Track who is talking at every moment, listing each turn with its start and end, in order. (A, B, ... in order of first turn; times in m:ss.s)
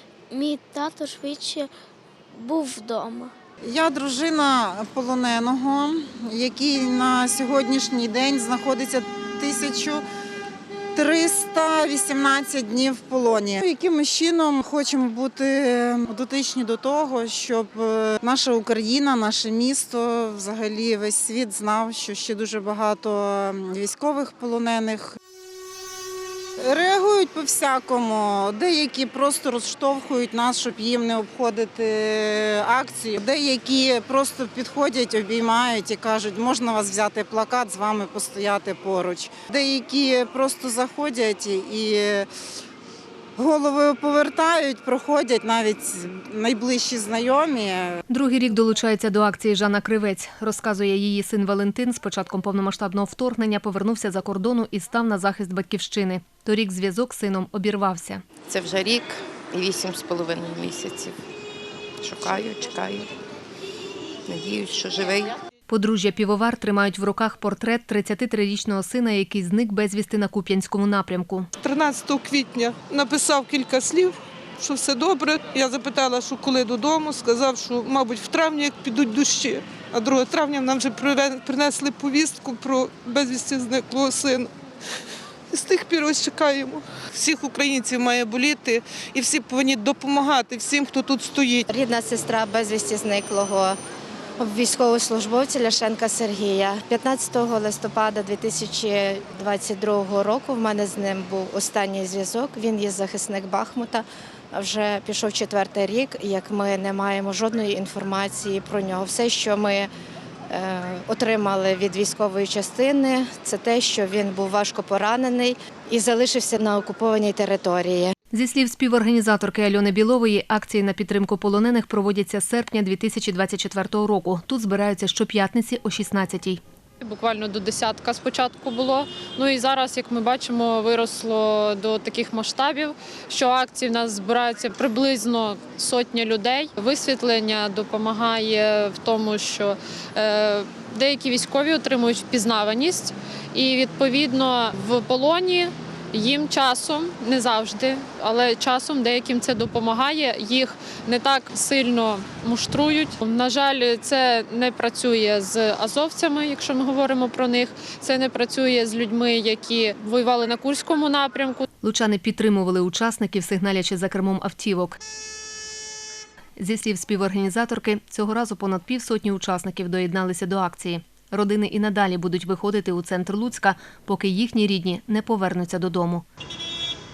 0:00.3-0:01.7 A
0:02.4-0:03.3 A
0:03.6-0:10.0 B
0:11.0-0:25.2 B
0:26.6-0:42.3 B
0:43.4-0:48.0 B
0:48.1-0:58.2 C
0:58.5-1:01.2 D
1:02.0-1:03.1 D
1:04.3-1:05.4 D
1:05.7-1:11.5 C
1:11.6-1:24.5 E
1:25.5-1:31.6 E
1:31.7-1:33.8 F
1:34.4-1:49.9 F
1:50.5-1:58.2 F
1:58.3-2:06.6 C
2:07.0-2:41.6 G
2:41.8-2:45.0 C
2:46.6-2:56.2 C